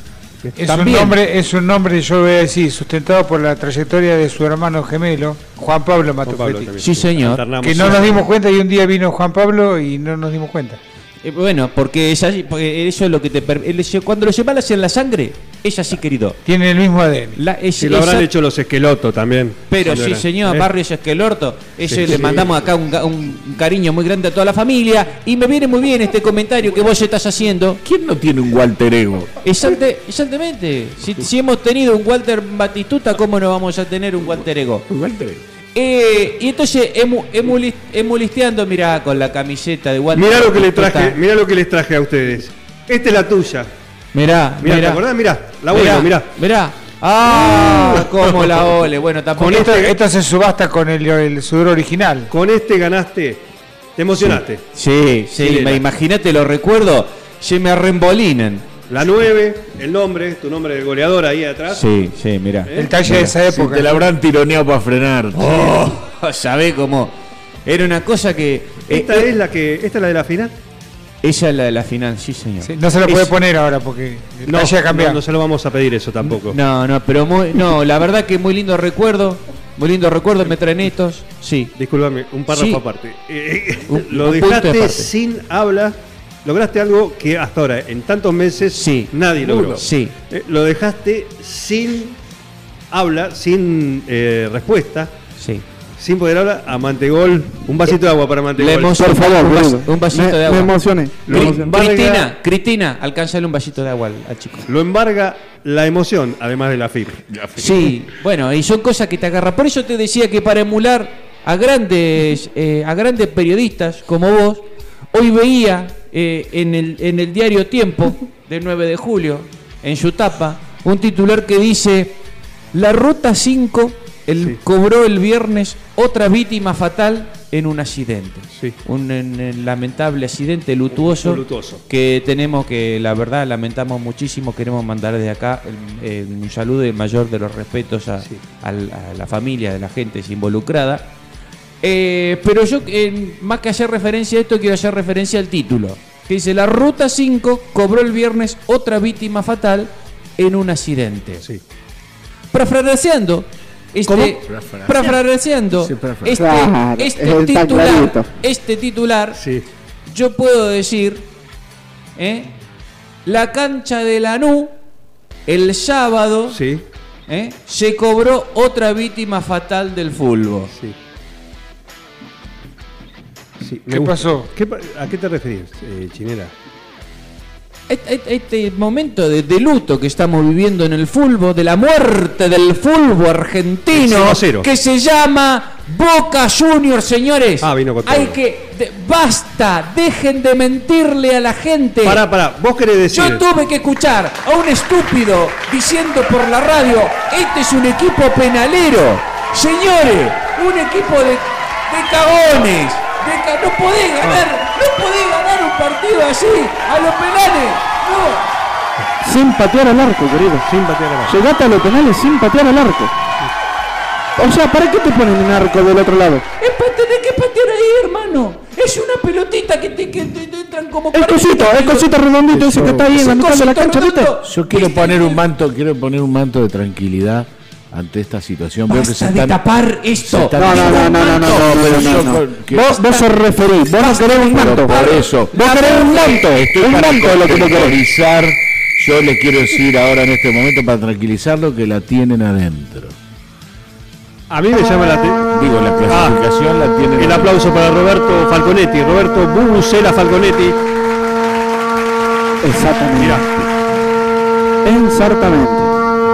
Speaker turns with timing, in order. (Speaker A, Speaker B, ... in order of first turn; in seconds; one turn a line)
Speaker A: 0.6-6.8
Speaker B: 0.6-1.2
Speaker C: 6.3-8.3
Speaker B: 6.8-7.4
Speaker A: 7.6-10.8
Speaker B: 11.2-16.4
Speaker A: 16.4-17.4
Speaker B: 17.4-18.3
Speaker C: 17.8-20.7
Speaker B: 19.7-27.8
Speaker C: 21.9-22.5
Speaker D: 22.1-22.8
Speaker D: 27.8-29.4
Speaker B: 29.4-34.9
Speaker D: 34.9-35.4
Speaker B: 35.8-41.2
Speaker C: 40.1-43.7
Speaker B: 44.1-45.0
Speaker C: 44.6-46.3
Speaker B: 45.7-49.7
Speaker C: 49.4-50.0
Speaker A: 49.4-52.3
Speaker C: 52.3-53.4
Speaker C: 54.0-54.6
Speaker B: 54.8-58.7
Speaker C: 55.4-55.8
Speaker C: 58.9-61.8
Speaker B: 61.7-63.3
Speaker C: 62.7-63.0
Speaker A: 62.7-64.0
Speaker D: 63.5-65.7
Speaker B: 65.3-69.3
Speaker C: 68.9-70.5
Speaker B: 71.2-73.3
Speaker A: 72.6-75.2
Speaker C: 74.5-76.6
Speaker B: 76.5-81.7
Speaker C: 81.8-92.2
Speaker B: 82.5-82.8
Speaker B: 83.9-85.1
Speaker B: 88.7-90.1
Speaker C: 92.9-95.1
Speaker B: 95.4-95.7
Speaker C: 96.0-99.0
Speaker B: 98.6-100.7
Speaker E: 99.0-101.7
Speaker B: 101.3-104.7
Speaker C: 101.3-102.3
Speaker C: 104.7-107.2
Speaker D: 107.3-108.1
Speaker B: 107.6-122.2
Speaker B: 122.7-141.1
Speaker C: 130.9-131.8
Speaker B: 141.8-151.4
Speaker B: 152.5-159.4
Speaker D: 154.1-155.2
Speaker D: 155.8-156.4
Speaker E: 156.3-158.3
Speaker C: 159.4-159.7
Speaker B: 160.1-161.3
Speaker B: 162.2-162.5
Speaker B: 163.2-164.7
Speaker B: 165.5-166.6
Speaker C: 166.5-166.8
Speaker B: 167.3-170.7
Speaker C: 173.6-176.5
Speaker A: 173.9-174.5
Speaker B: 177.9-192.2
Speaker C: 183.9-184.7
Speaker C: 187.6-188.4
Speaker C: 192.0-193.4
Speaker B: 193.1-208.5
Speaker E: 209.2-210.7
Speaker C: 210.6-211.4
Speaker E: 211.3-213.1
Speaker E: 214.4-216.5
Speaker B: 216.6-222.1
Speaker E: 221.1-224.3
Speaker D: 222.5-223.3
Speaker B: 223.1-225.4
Speaker D: 224.4-229.6
Speaker B: 228.9-232.4
Speaker D: 230.2-233.2
Speaker E: 230.6-238.0
Speaker B: 234.0-236.4
Speaker D: 234.5-243.2
Speaker C: 244.5-245.5
Speaker D: 245.5-247.6
Speaker C: 246.1-246.4
Speaker C: 247.2-250.8
Speaker E: 252.6-253.5
Speaker C: 253.2-253.5
Speaker E: 254.8-255.9